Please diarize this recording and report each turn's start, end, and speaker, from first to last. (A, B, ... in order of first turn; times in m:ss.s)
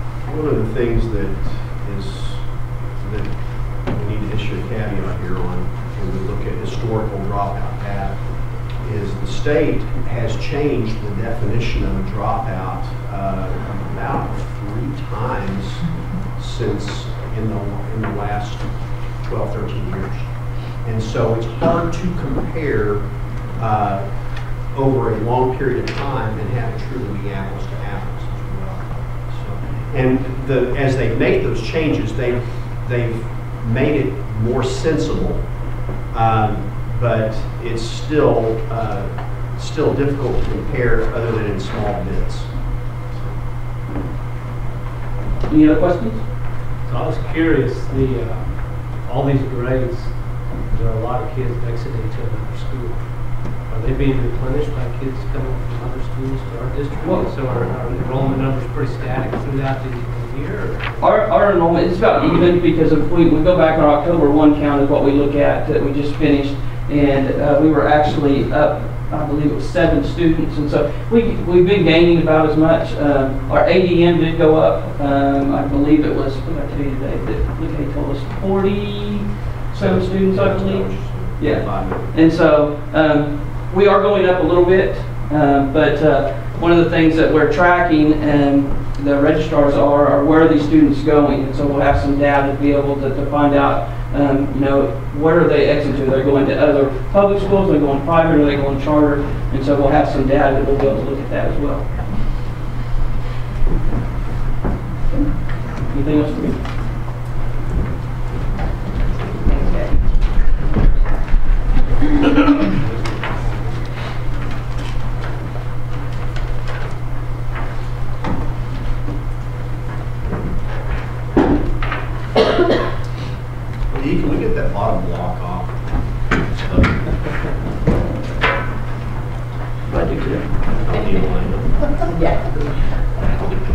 0:00.3-0:23.1 A
0:23.6-0:35.5 A
0:36.1-0:42.5 A
0:45.5-0:46.2 B
0:46.8-1:01.1 C
0:57.0-0:57.3 B
1:01.0-1:41.9 B
1:19.7-1:22.2 A
1:45.9-1:46.6 B
1:49.5-1:49.8 B
1:52.8-1:53.8 C
2:03.9-2:05.8 A
2:06.6-2:07.1 A
2:09.9-2:10.5 B
2:10.8-2:12.0 A